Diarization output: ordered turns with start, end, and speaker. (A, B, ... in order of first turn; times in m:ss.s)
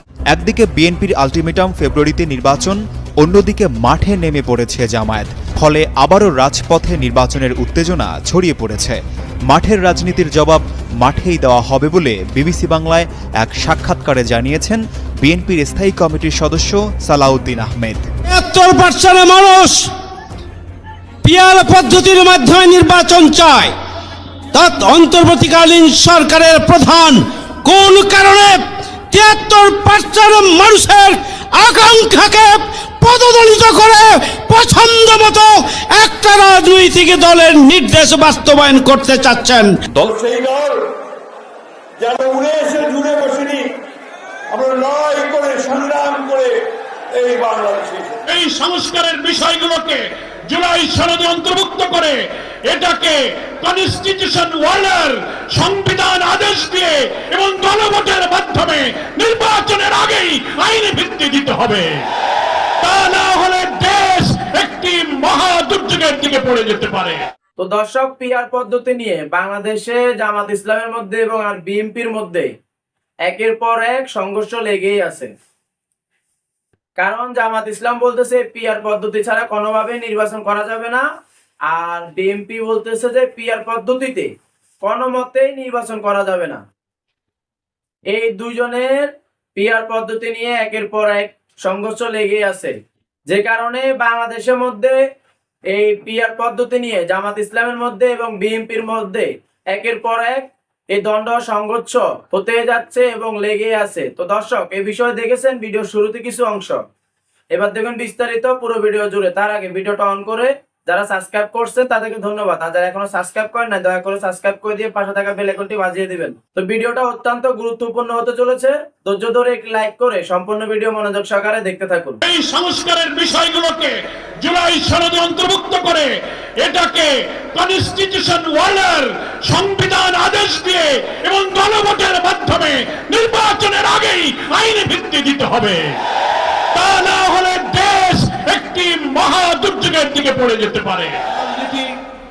0:00.3-0:18.1 A
0:18.3-0:19.9 B
0:21.2-0:23.8 B
0:24.5-0:39.8 B
0:39.9-0:40.9 C
0:42.0-0:43.8 C
0:44.5-0:48.2 C
0:48.3-1:02.0 D
1:02.8-1:07.2 D
1:07.6-1:12.5 E
1:13.3-1:15.3 E
1:17.0-1:21.0 E
1:21.7-1:24.3 E
1:24.8-1:26.6 E
1:28.1-1:32.7 E
1:33.3-1:35.0 E
1:35.7-1:46.8 E
1:47.6-2:02.2 E
2:02.2-2:06.1 D
2:06.6-2:16.0 D
2:16.7-2:21.9 D